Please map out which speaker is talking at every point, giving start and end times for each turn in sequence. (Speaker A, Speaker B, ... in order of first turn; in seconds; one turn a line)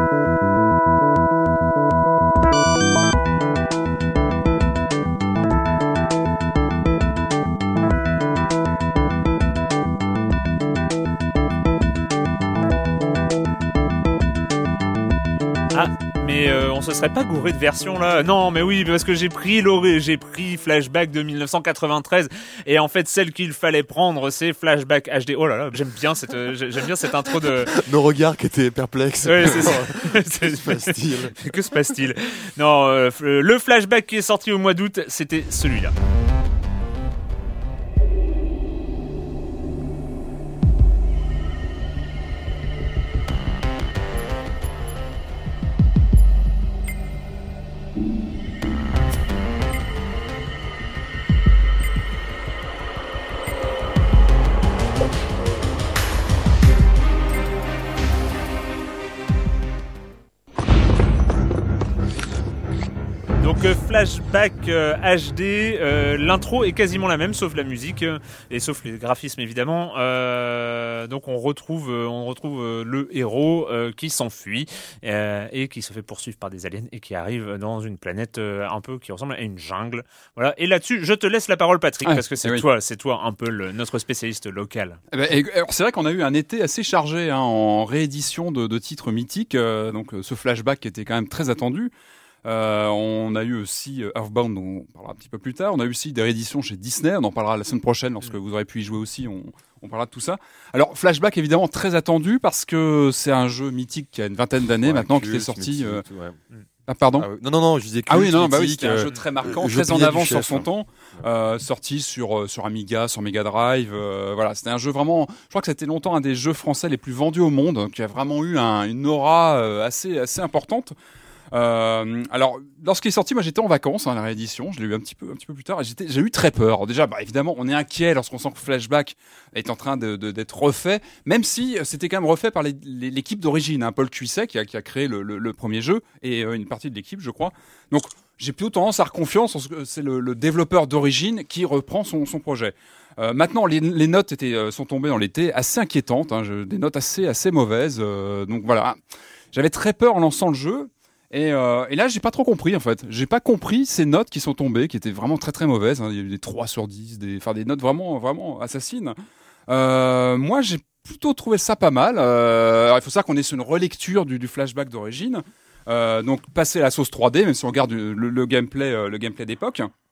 Speaker A: 15.7-27.7
Speaker B: 27.7-31.4
Speaker A: 29.2-35.9
Speaker A: 63.4-85.0
Speaker C: 82.0-82.7
Speaker C: 85.1-91.9
Speaker C: 92.4-106.0
Speaker B: 104.8-106.4
Speaker C: 106.9-107.3
Speaker B: 107.2-111.3
Speaker C: 108.1-120.9
Speaker C: 121.5-149.0
Speaker C: 149.5-159.2
Speaker C: 159.7-169.9